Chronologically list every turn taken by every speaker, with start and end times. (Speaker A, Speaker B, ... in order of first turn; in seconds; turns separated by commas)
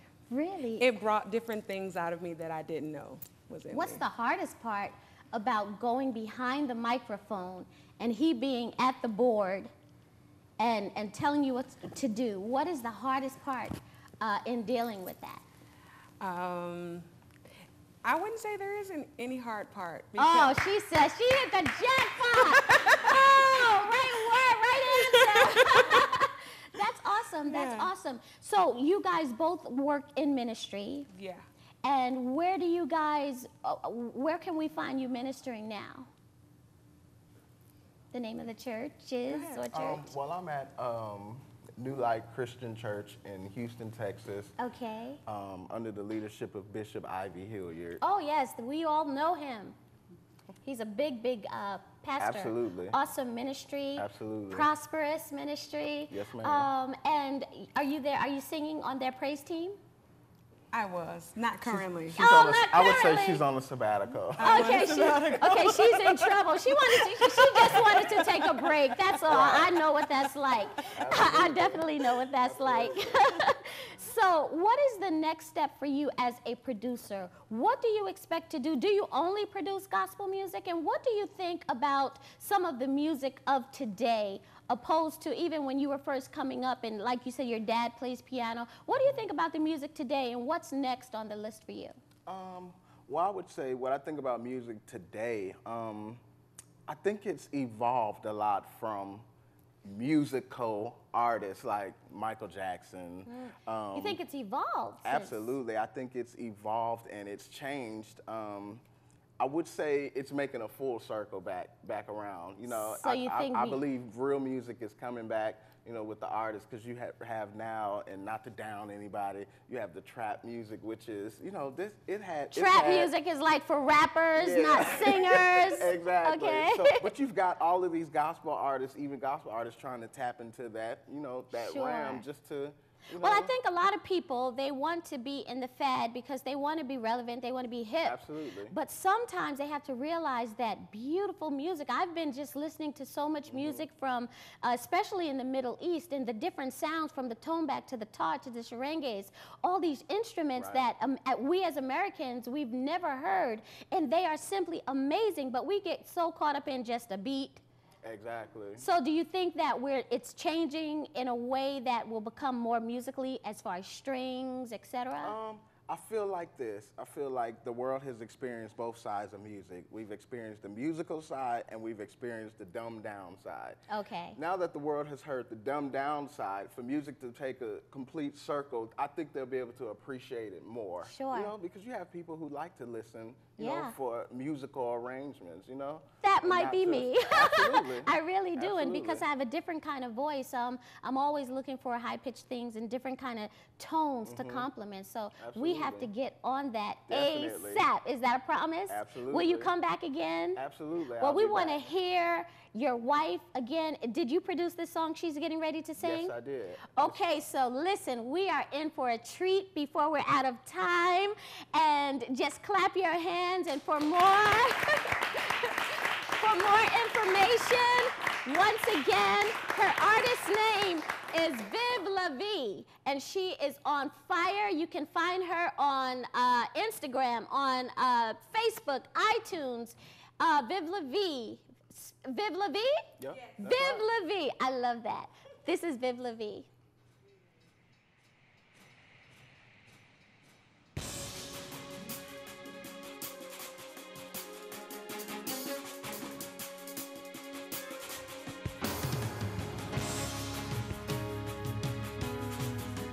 Speaker A: 0.3-0.9, Speaker B: 0.8-4.0, Speaker A: 3.7-9.7, Speaker A: 10.6-15.4, Speaker B: 16.2-17.1, Speaker B: 18.0-20.6, Speaker A: 20.2-31.1, Speaker B: 27.5-27.9, Speaker B: 31.2-31.4, Speaker A: 31.8-36.1, Speaker A: 38.1-40.1, Speaker B: 39.4-39.6, Speaker C: 39.7-44.5, Speaker A: 44.6-45.2, Speaker C: 45.3-48.0, Speaker A: 48.0-49.8, Speaker A: 50.6-59.8, Speaker C: 52.2-53.0, Speaker C: 54.0-54.7, Speaker C: 56.1-56.7, Speaker B: 60.7-62.2, Speaker C: 61.6-65.6, Speaker A: 62.2-63.4, Speaker A: 64.4-92.0, Speaker B: 64.4-65.7, Speaker C: 69.3-69.8, Speaker C: 70.8-73.4, Speaker C: 92.3-96.2, Speaker C: 96.9-99.2, Speaker C: 99.8-104.2, Speaker A: 103.3-105.5, Speaker C: 105.0-108.8, Speaker C: 109.4-123.1, Speaker A: 112.8-113.8, Speaker A: 122.5-127.1, Speaker C: 124.4-133.5, Speaker A: 131.5-132.2, Speaker A: 133.2-138.2, Speaker C: 138.0-138.8, Speaker A: 138.7-157.6, Speaker C: 143.5-143.8, Speaker C: 150.6-150.9, Speaker C: 158.0-158.8, Speaker A: 158.8-165.3, Speaker C: 165.2-173.8, Speaker A: 173.9-174.4, Speaker C: 174.4-189.3, Speaker A: 181.0-181.5, Speaker A: 183.6-183.9, Speaker A: 186.2-200.6, Speaker C: 194.3-194.7, Speaker C: 195.4-196.1, Speaker C: 197.1-197.8, Speaker C: 198.9-199.7, Speaker C: 200.6-201.8, Speaker A: 201.2-206.3, Speaker C: 206.0-207.3, Speaker A: 206.9-236.7, Speaker C: 233.2-234.1